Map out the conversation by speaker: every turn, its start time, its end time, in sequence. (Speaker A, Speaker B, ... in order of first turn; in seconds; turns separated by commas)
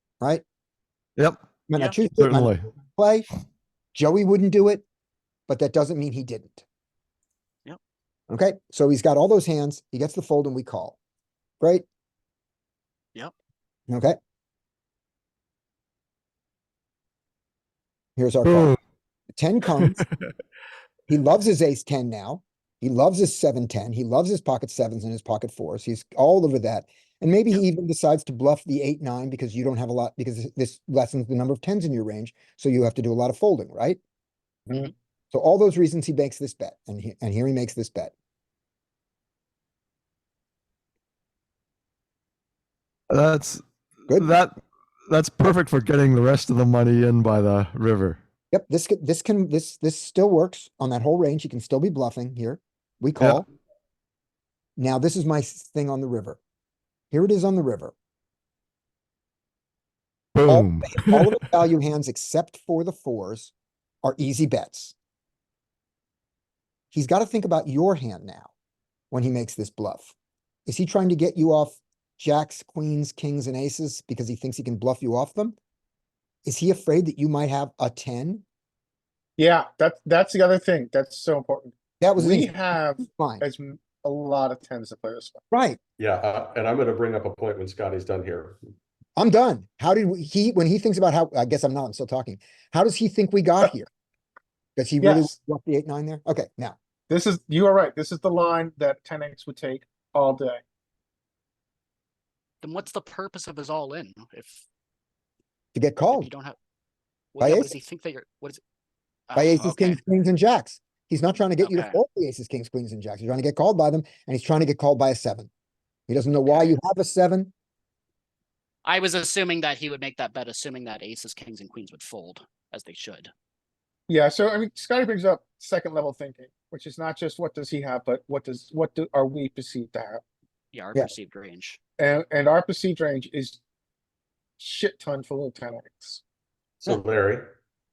Speaker A: 1.7-3.3, Speaker B: 2.2-2.7, Speaker A: 3.9-4.8, Speaker A: 5.5-6.7, Speaker A: 8.3-11.0, Speaker A: 11.6-11.8, Speaker A: 13.9-14.2, Speaker A: 18.2-18.8, Speaker B: 18.4-18.8, Speaker A: 19.3-20.0, Speaker A: 21.1-34.0, Speaker A: 35.3-38.1, Speaker B: 43.1-48.2, Speaker A: 48.5-53.5, Speaker B: 53.2-53.5, Speaker A: 54.8-56.4, Speaker A: 57.1-57.9, Speaker B: 60.4-61.4, Speaker A: 60.5-63.5, Speaker A: 64.0-65.0, Speaker A: 66.9-68.5, Speaker A: 69.1-70.1, Speaker A: 70.7-75.6, Speaker A: 76.5-78.4, Speaker C: 79.4-85.4, Speaker A: 82.0-83.4, Speaker A: 85.5-85.8, Speaker D: 86.0-88.6, Speaker A: 89.2-93.9, Speaker A: 94.8-96.8, Speaker C: 95.0-95.3, Speaker C: 97.1-100.6, Speaker E: 102.6-104.7, Speaker A: 105.7-106.3, Speaker E: 106.1-106.6, Speaker E: 107.3-108.6, Speaker A: 107.4-107.8, Speaker E: 109.3-110.0, Speaker A: 109.3-115.5, Speaker E: 111.6-112.0, Speaker A: 116.1-117.5, Speaker E: 116.5-116.8, Speaker E: 118.8-123.3, Speaker C: 124.1-130.2, Speaker E: 130.7-131.8, Speaker C: 132.0-133.6, Speaker C: 134.6-136.2, Speaker D: 136.8-137.5